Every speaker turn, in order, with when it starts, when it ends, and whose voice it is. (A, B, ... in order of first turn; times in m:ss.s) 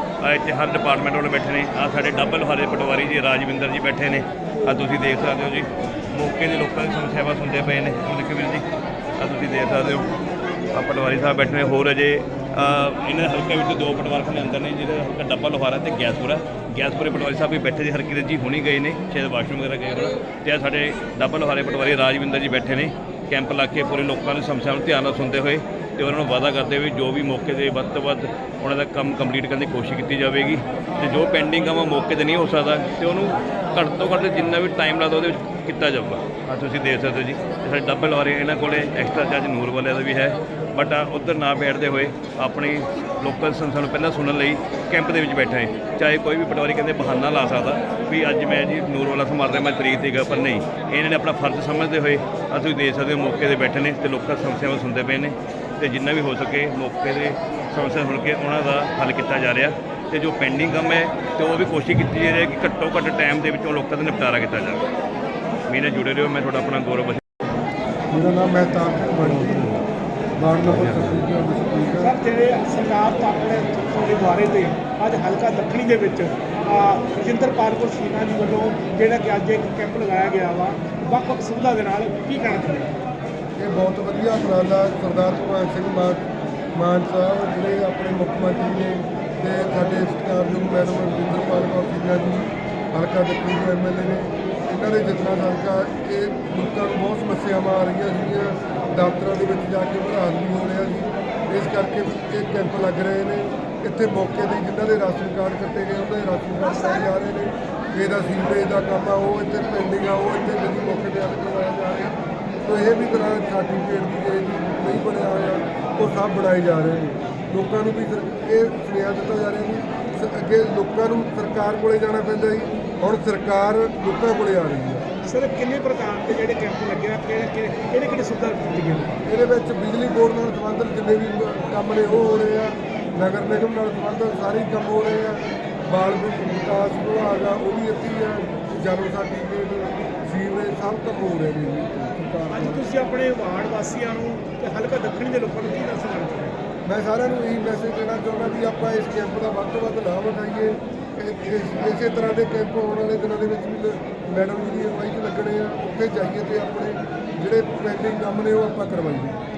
0:00.2-0:08.6 A
0:09.2-0:10.1 A
0:10.7-1:04.8 A
1:05.7-1:07.2 A
1:08.1-1:09.8 B
1:10.4-1:12.1 B
1:10.7-1:11.1 A
1:12.0-1:23.0 C
1:23.6-1:26.2 B
1:26.8-2:05.1 B
2:05.2-2:09.2 C
2:09.2-2:22.8 B
2:22.5-2:26.6 C
2:26.9-2:39.4 B